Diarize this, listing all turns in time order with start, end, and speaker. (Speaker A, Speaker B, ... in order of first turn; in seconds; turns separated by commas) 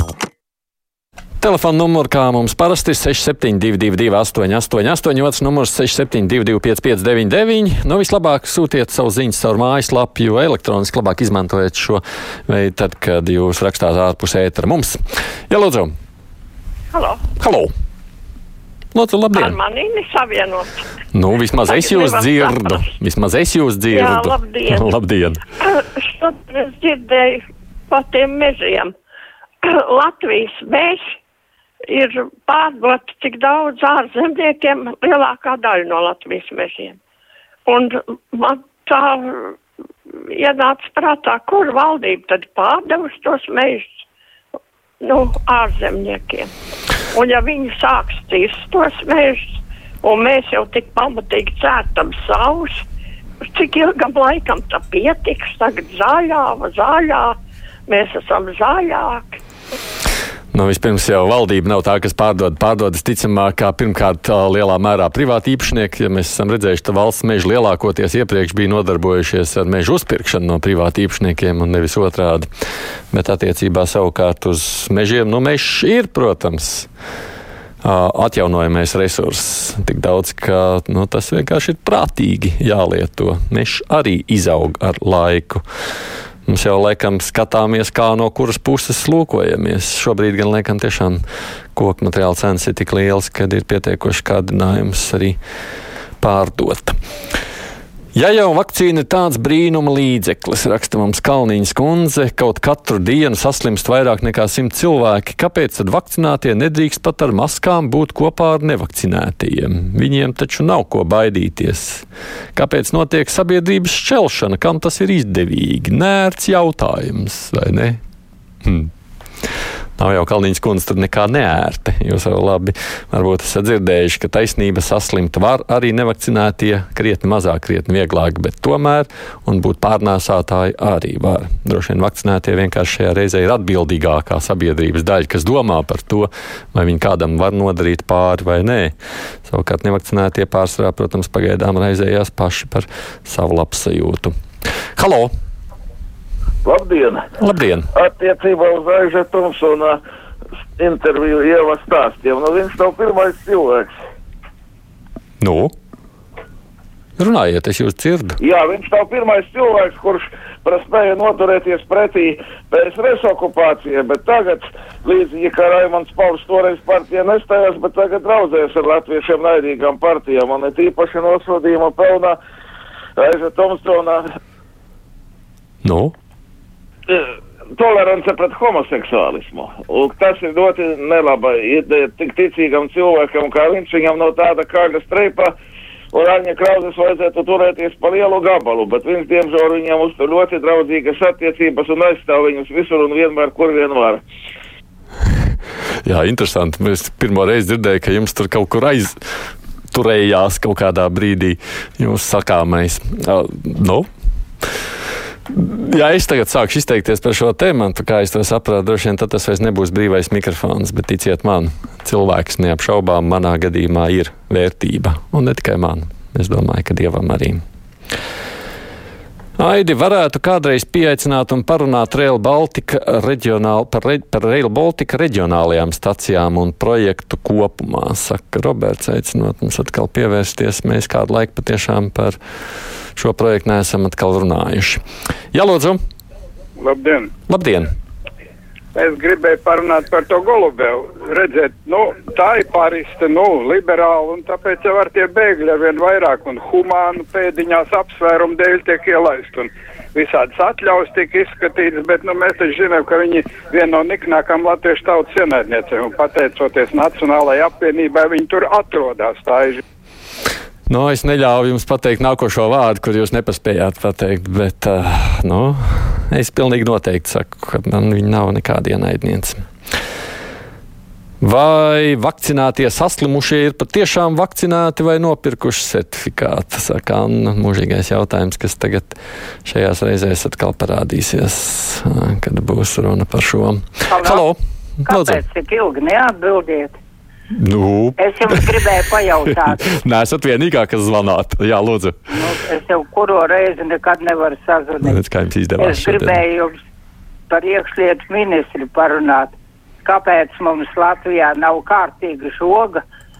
Speaker A: 1.4-15.9, Speaker B: 16.9-17.2, Speaker A: 17.4-17.7, Speaker A: 18.9-19.6, Speaker B: 19.3-20.8, Speaker A: 21.1-25.4, Speaker B: 21.7-22.9, Speaker B: 23.9-24.9, Speaker B: 25.6-28.9, Speaker B: 29.9-31.0, Speaker B: 31.9-37.0, Speaker B: 37.7-39.5, Speaker B: 40.4-44.0, Speaker B: 45.0-46.5, Speaker B: 47.1-52.8, Speaker B: 53.5-57.4, Speaker B: 57.9-59.4, Speaker A: 60.5-72.5, Speaker A: 73.1-76.9, Speaker A: 77.8-85.6, Speaker A: 86.5-91.2, Speaker A: 91.8-95.4, Speaker A: 96.2-97.0, Speaker A: 98.2-112.0, Speaker A: 112.6-118.0, Speaker A: 118.7-118.9, Speaker A: 120.0-138.9, Speaker A: 139.5-144.3, Speaker A: 145.0-145.3, Speaker C: 146.7-147.2, Speaker A: 147.4-147.9, Speaker C: 147.9-150.0, Speaker C: 150.8-153.9, Speaker A: 155.4-155.7, Speaker A: 157.2-158.4, Speaker C: 158.4-172.4, Speaker C: 173.2-174.2, Speaker A: 175.8-176.1, Speaker C: 177.1-185.5, Speaker C: 186.1-194.2, Speaker A: 196.1-199.2, Speaker A: 199.9-204.1, Speaker A: 205.5-217.6, Speaker A: 219.6-232.4, Speaker A: 233.2-235.0, Speaker A: 235.5-236.0, Speaker D: 236.8-237.3, Speaker A: 237.5-237.9, Speaker D: 239.0-259.8, Speaker A: 260.9-269.6, Speaker A: 271.4-285.4, Speaker E: 284.1-284.4, Speaker E: 285.1-287.0, Speaker A: 287.5-288.6, Speaker E: 288.2-289.9, Speaker A: 289.9-292.1, Speaker E: 292.3-295.2, Speaker A: 295.0-296.4, Speaker E: 295.8-296.8, Speaker E: 297.5-303.0